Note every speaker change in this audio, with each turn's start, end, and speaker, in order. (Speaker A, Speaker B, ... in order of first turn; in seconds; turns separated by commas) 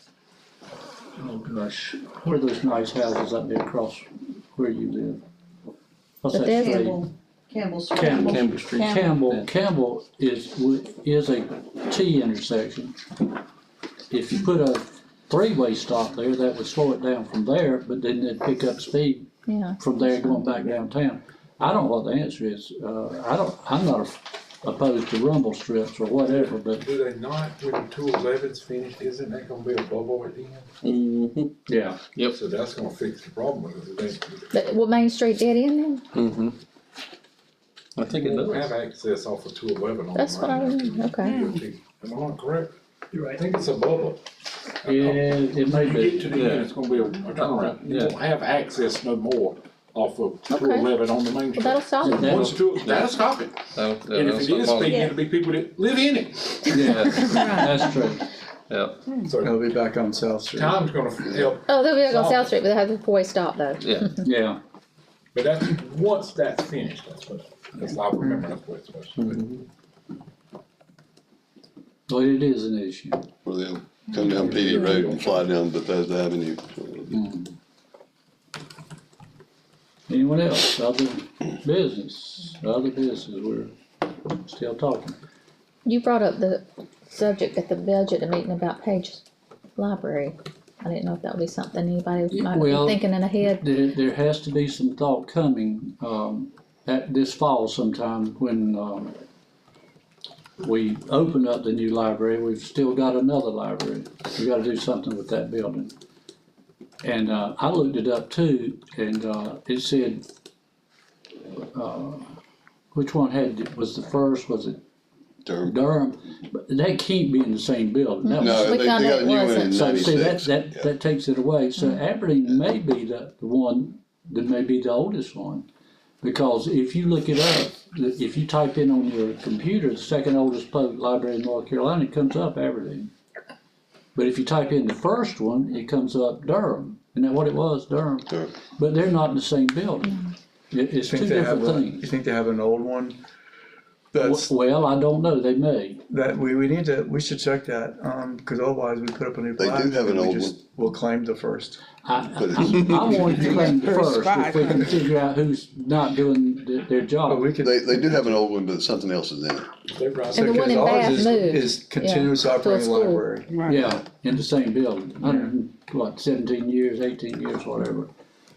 Speaker A: 1.2-5.2, Speaker A: 6.2-7.0, Speaker B: 6.3-6.9, Speaker C: 6.4-9.2, Speaker A: 7.9-13.0, Speaker D: 8.2-9.5, Speaker A: 14.1-26.8, Speaker B: 19.5-20.3, Speaker E: 26.2-30.7, Speaker D: 30.8-31.5, Speaker A: 31.7-32.0, Speaker D: 32.1-32.4, Speaker E: 32.2-34.5, Speaker B: 34.5-36.0, Speaker D: 36.1-36.5, Speaker D: 38.0-38.7, Speaker E: 38.0-42.7, Speaker B: 40.1-41.4, Speaker C: 41.2-41.5, Speaker E: 43.3-44.2, Speaker A: 44.8-46.4, Speaker E: 44.8-56.8, Speaker D: 46.3-46.7, Speaker D: 47.3-48.2, Speaker B: 50.5-50.9, Speaker B: 51.5-52.4, Speaker A: 52.0-52.7, Speaker D: 52.8-53.2, Speaker D: 53.7-55.0, Speaker C: 54.9-55.2, Speaker A: 56.7-58.2, Speaker D: 56.9-57.7, Speaker B: 57.2-57.6, Speaker D: 58.7-59.0, Speaker E: 59.2-59.6, Speaker F: 59.4-60.8, Speaker E: 60.5-62.5, Speaker B: 61.6-64.2, Speaker D: 63.8-64.1, Speaker A: 64.2-64.6, Speaker E: 65.3-69.3, Speaker D: 69.2-69.6, Speaker A: 72.1-73.3, Speaker G: 73.4-77.2, Speaker E: 74.2-75.4, Speaker A: 77.1-77.5, Speaker A: 80.1-85.2, Speaker B: 85.8-89.2, Speaker B: 89.8-93.6, Speaker A: 92.3-99.2, Speaker A: 100.6-105.9, Speaker A: 107.0-110.2, Speaker A: 111.5-112.3, Speaker A: 112.9-114.8, Speaker G: 115.4-115.8, Speaker A: 115.6-118.8, Speaker B: 118.2-119.8, Speaker G: 118.4-120.9, Speaker A: 119.7-125.6, Speaker A: 126.2-133.1, Speaker A: 134.1-142.1, Speaker F: 141.1-143.2, Speaker F: 144.1-144.5, Speaker A: 144.2-146.0, Speaker F: 146.1-151.8, Speaker G: 149.6-150.6, Speaker A: 152.0-157.5, Speaker G: 152.3-153.6, Speaker C: 153.4-154.8, Speaker F: 157.2-158.4, Speaker G: 157.6-159.8, Speaker E: 159.9-161.1, Speaker B: 160.3-163.2, Speaker F: 160.3-163.6, Speaker C: 163.5-163.8, Speaker A: 163.6-168.1, Speaker F: 165.2-165.5